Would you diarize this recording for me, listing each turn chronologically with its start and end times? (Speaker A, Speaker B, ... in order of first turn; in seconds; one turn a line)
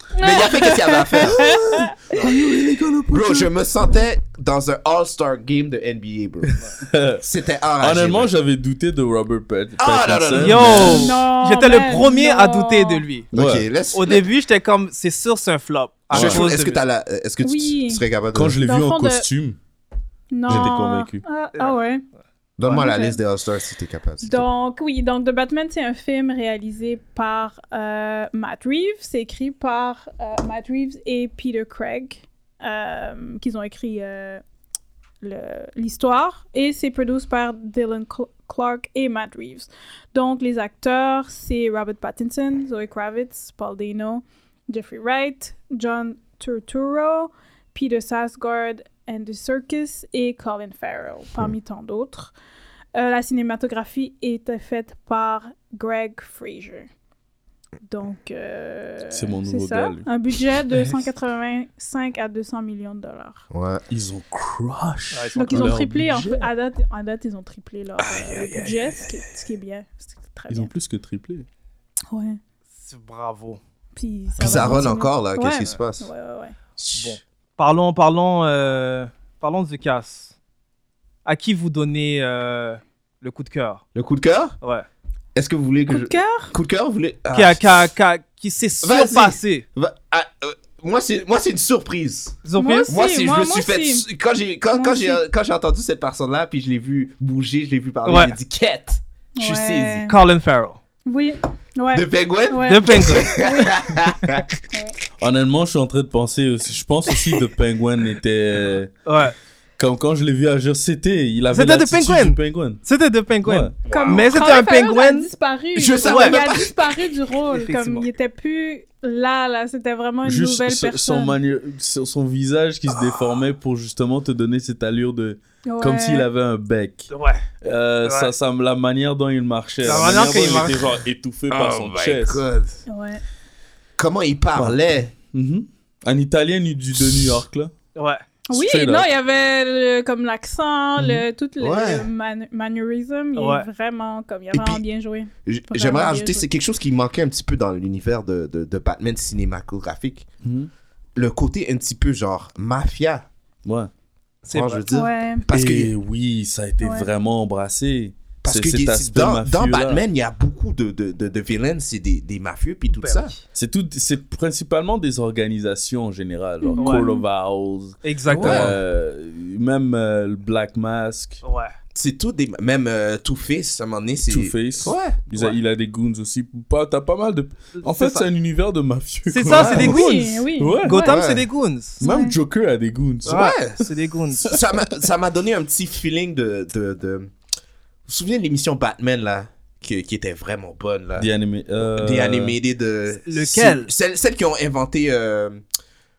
Speaker A: 0.1-1.9
Speaker B: 0.2-1.9
Speaker C: 2.1-3.5
Speaker B: 3.1-6.6
Speaker C: 6.5-7.2
Speaker B: 7.2-8.3
Speaker C: 7.8-11.1
Speaker B: 9.8-11.0
Speaker D: 10.3-13.3
Speaker A: 10.8-13.0
Speaker C: 13.3-13.6
Speaker B: 13.3-14.2
Speaker D: 13.9-16.8
Speaker C: 16.1-16.4
Speaker B: 16.1-18.6
Speaker A: 17.4-18.1
Speaker C: 18.3-19.6
Speaker A: 18.6-19.3
Speaker A: 20.3-22.0
Speaker C: 20.5-21.2
Speaker B: 20.5-20.8
Speaker B: 22.6-24.5
Speaker A: 22.7-23.2
Speaker A: 24.2-34.4
Speaker A: 35.2-52.3
Speaker A: 52.9-56.9
Speaker A: 57.9-63.4
Speaker C: 59.1-60.1
Speaker B: 63.5-63.8
Speaker C: 63.9-66.5
Speaker D: 65.1-65.8
Speaker A: 65.3-70.7
Speaker C: 70.5-71.5
Speaker A: 72.1-72.4
Speaker D: 72.7-73.6
Speaker A: 74.0-76.5
Speaker B: 74.4-76.1
Speaker B: 76.8-77.2
Speaker D: 76.9-80.3
Speaker D: 81.2-83.8
Speaker B: 83.9-84.5
Speaker D: 84.6-84.9
Speaker B: 85.3-87.9
Speaker A: 85.9-86.5
Speaker D: 87.3-89.6
Speaker B: 88.8-100.1
Speaker D: 92.4-92.9
Speaker A: 92.6-94.0
Speaker A: 94.7-95.2
Speaker D: 98.0-98.3
Speaker A: 99.4-100.1
Speaker D: 100.1-100.8
Speaker A: 101.0-103.8
Speaker B: 101.9-104.5
Speaker D: 102.6-103.3
Speaker A: 104.7-105.0
Speaker C: 105.2-108.9
Speaker D: 109.0-109.3
Speaker C: 109.8-112.8
Speaker D: 111.5-115.3
Speaker C: 113.4-113.7
Speaker B: 113.9-114.4
Speaker A: 113.9-121.4
Speaker B: 115.7-117.0
Speaker D: 116.0-116.4
Speaker D: 117.5-118.1
Speaker C: 120.2-127.1
Speaker A: 125.7-126.3
Speaker D: 127.1-127.5
Speaker C: 127.6-132.4
Speaker D: 128.0-128.3
Speaker D: 129.8-131.0
Speaker B: 131.5-132.8
Speaker A: 132.9-133.2
Speaker B: 134.0-135.1
Speaker C: 135.3-137.7
Speaker D: 137.9-138.2
Speaker A: 138.5-146.5
Speaker C: 138.5-139.1
Speaker B: 141.6-142.1
Speaker D: 143.3-143.7
Speaker B: 144.5-144.8
Speaker B: 145.4-150.3
Speaker C: 150.4-150.7
Speaker B: 151.2-153.3
Speaker C: 153.6-153.9
Speaker D: 154.4-154.8
Speaker B: 154.5-155.9
Speaker A: 154.9-155.4
Speaker C: 155.5-160.0
Speaker A: 156.8-157.1
Speaker B: 158.4-163.3
Speaker D: 163.0-163.3
Speaker C: 163.5-171.4
Speaker A: 166.6-167.2
Speaker D: 166.8-167.1
Speaker D: 168.0-168.7
Speaker B: 168.3-168.8
Speaker D: 171.4-171.7
Speaker B: 171.9-175.2
Speaker C: 174.3-180.0
Speaker D: 177.8-178.3
Speaker D: 179.3-182.0
Speaker A: 179.5-181.2
Speaker C: 180.6-181.0
Speaker B: 181.0-181.5
Speaker A: 182.0-182.3
Speaker C: 182.0-183.6
Speaker B: 183.2-183.8
Speaker D: 183.2-184.6
Speaker B: 184.4-187.3
Speaker B: 188.1-191.3
Speaker C: 191.2-192.5
Speaker B: 191.9-195.6
Speaker D: 193.2-193.9